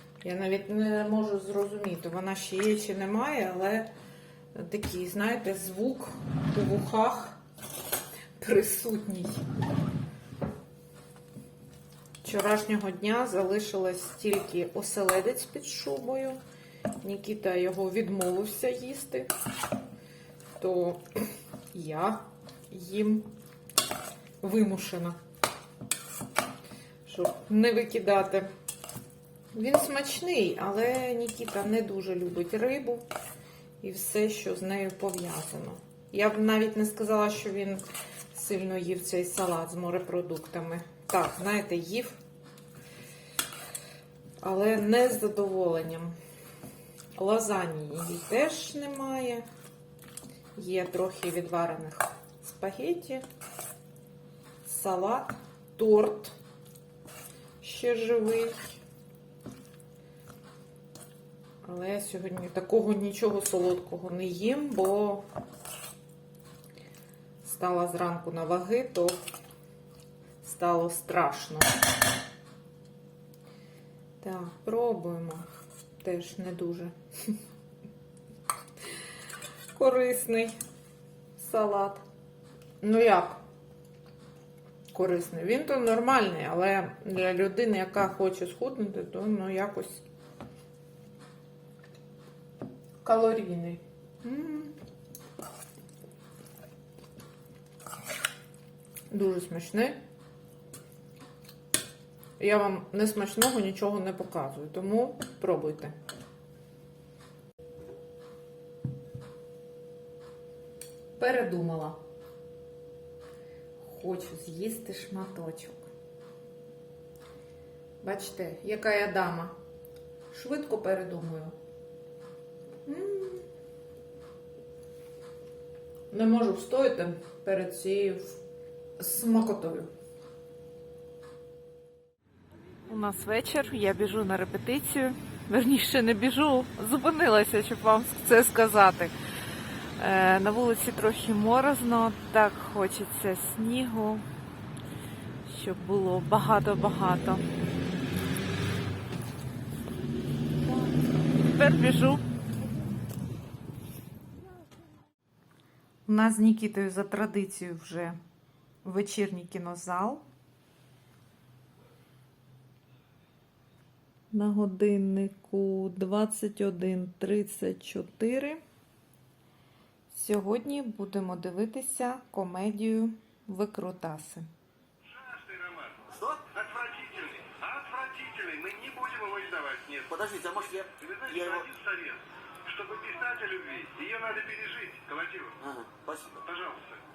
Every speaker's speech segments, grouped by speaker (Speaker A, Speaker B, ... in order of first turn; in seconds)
Speaker A: 0.2-3.9, 4.5-7.4, 8.4-9.4, 12.2-16.4, 17.0-19.3, 20.6-23.3, 24.4-25.2, 27.1-28.5, 29.5-33.1, 33.8-42.2, 44.4-46.1, 47.2-49.5, 50.6-53.3, 54.6-56.4, 57.6-58.8, 61.6-65.2, 67.4-69.2, 70.4-71.7, 74.2-75.5, 76.0-77.4, 79.7-80.6, 81.4-82.0, 82.8-83.4, 84.9-90.0, 93.0-94.8, 99.1-100.0, 102.4-106.0, 111.2-112.0, 113.8-115.8, 118.0-119.6, 120.3-121.5, 122.8-123.5, 126.1-128.4, 129.0-129.9, 132.9-139.2, 140.0-144.3, 145.4-147.5, 151.4-152.2, 156.1-158.2, 158.8-160.2, 164.3-168.6, 170.1-174.5
Speaker B: 175.1-176.0, 176.5-180.1, 181.0-185.6, 186.4-187.0
Speaker C: 176.1-176.5, 180.1-181.7, 185.6-186.4